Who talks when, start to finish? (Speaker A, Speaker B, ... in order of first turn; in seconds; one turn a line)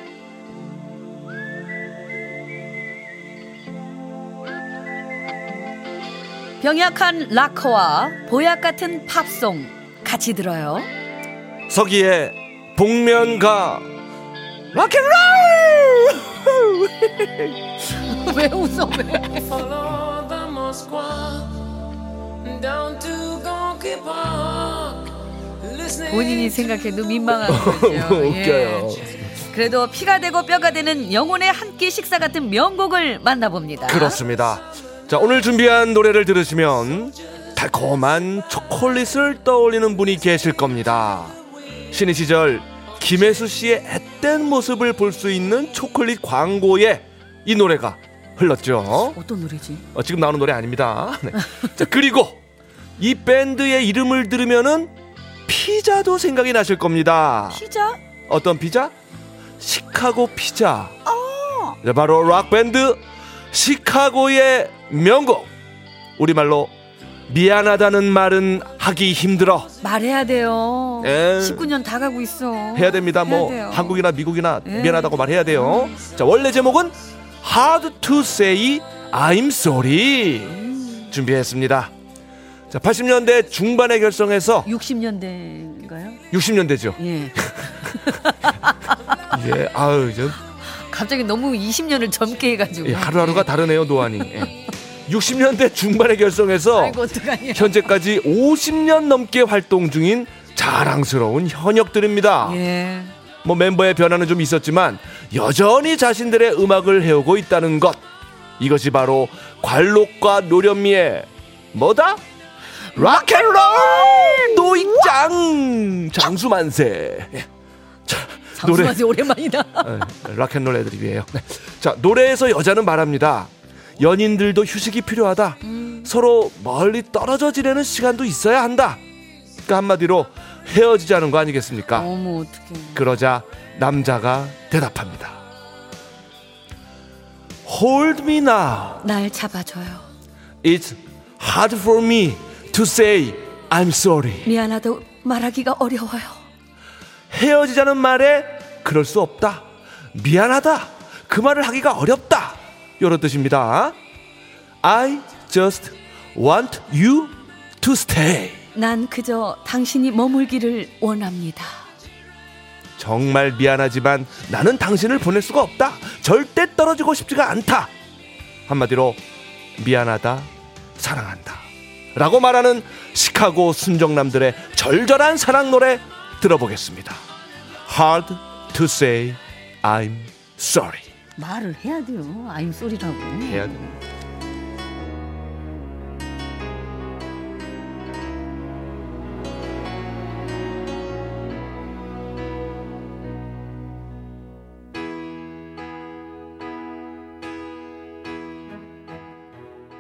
Speaker A: 6.6-10.9
Speaker B: 11.7-13.9
Speaker B: 14.7-17.6
Speaker A: 17.9-19.9
Speaker C: 19.9-21.8
Speaker C: 22.4-26.1
Speaker A: 25.9-34.2
Speaker B: 27.5-29.4
Speaker B: 33.9-41.4
Speaker B: 41.9-49.2
Speaker A: 49.1-49.9
Speaker B: 49.9-52.4
Speaker B: 53.0-54.9
Speaker B: 55.5-57.6
Speaker A: 57.5-58.0
Speaker B: 58.3-58.9
Speaker B: 59.6-61.0
Speaker A: 61.1-61.8
Speaker B: 61.8-63.0
Speaker B: 63.5-65.5
Speaker B: 66.2-66.7
Speaker B: 67.3-69.7
Speaker A: 69.8-74.0
Speaker B: 71.0-71.7
Speaker B: 72.8-81.9
Speaker A: 74.6-75.9
Speaker A: 80.5-81.1
Speaker B: 82.7-84.7
Speaker A: 84.6-86.2
Speaker B: 86.3-88.1
Speaker A: 87.0-89.2
Speaker B: 89.3-90.4
Speaker A: 90.7-93.5
Speaker B: 92.8-94.5
Speaker B: 95.1-97.0
Speaker A: 96.8-97.9
Speaker B: 97.5-102.6
Speaker A: 102.4-103.1
Speaker B: 103.4-108.0
Speaker B: 108.6-112.2
Speaker B: 112.9-117.5
Speaker A: 113.0-114.9
Speaker B: 118.1-119.1
Speaker A: 118.6-120.0
Speaker B: 119.8-129.0
Speaker A: 125.6-126.1
Speaker B: 129.7-132.1
Speaker A: 131.9-133.1
Speaker B: 132.9-135.4
Speaker B: 137.7-139.0
Speaker A: 139.0-140.1
Speaker B: 140.6-144.5
Speaker A: 144.4-146.4
Speaker B: 147.3-154.0
Speaker B: 154.8-158.6
Speaker A: 158.8-161.9
Speaker B: 163.0-167.9
Speaker B: 168.7-169.2
Speaker B: 169.8-177.2
Speaker B: 177.9-181.1
Speaker A: 181.4-184.0
Speaker B: 183.5-183.8